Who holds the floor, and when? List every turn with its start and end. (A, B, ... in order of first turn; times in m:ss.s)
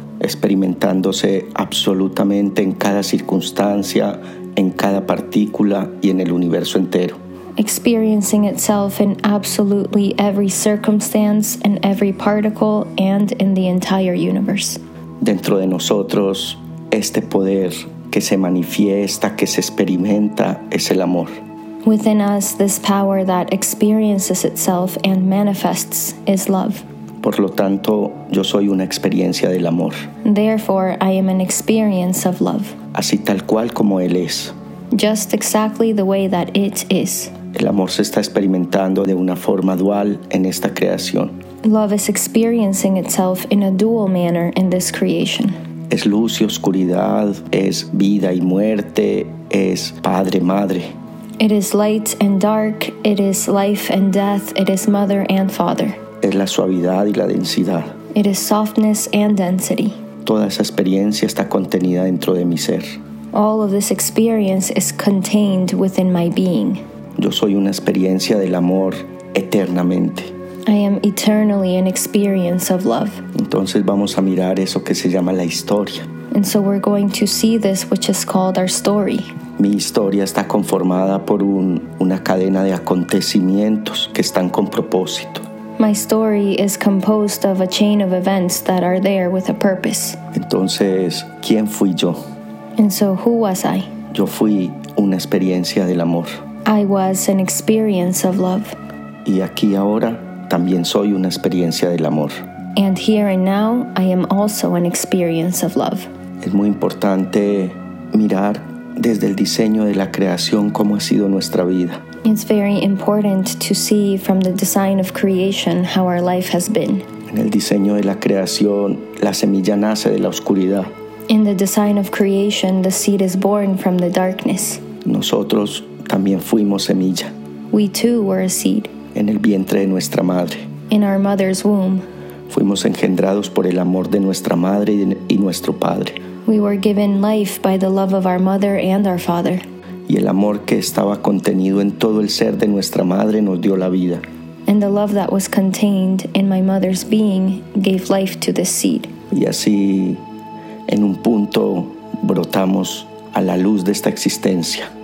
0:00.2-0:07.2 A
0:07.6-0:14.8 B
0:15.2-0:21.3 A
0:21.8-0:26.8 B
0:27.2-0:30.0 A
0:30.2-0:32.8 B
0:32.9-0:34.5 A
0:34.9-0:37.3 B
0:37.5-0:41.3 A
0:41.6-0:45.6 B
0:45.9-0:50.9 A
0:51.4-0:56.0 B
0:56.2-0:57.9 A
0:58.1-1:00.0 B
1:00.3-1:03.0 A
1:03.3-1:06.8 B
1:07.2-1:10.3 A
1:10.7-1:13.2 B
1:13.4-1:16.1 A
1:16.3-1:19.3 B
1:19.6-1:25.4 A
1:25.8-1:30.2 B
1:30.3-1:32.2 A
1:32.8-1:33.9 B
1:34.1-1:36.4 A
1:36.7-1:38.8 B
1:39.2-1:42.4 A
1:42.8-1:46.1 B
1:46.4-1:52.0 A
1:52.2-1:57.1 B
1:57.3-2:00.9 A
2:01.3-2:04.8 B
2:05.0-2:07.3 A
2:07.7-2:08.9 B
2:09.1-2:10.6 A
2:10.9-2:12.0 B
2:12.5-2:16.2 A
2:16.5-2:19.6 B
2:20.1-2:24.2 A
2:24.7-2:29.1 B
2:29.3-2:30.2 A
2:30.9-2:34.9 A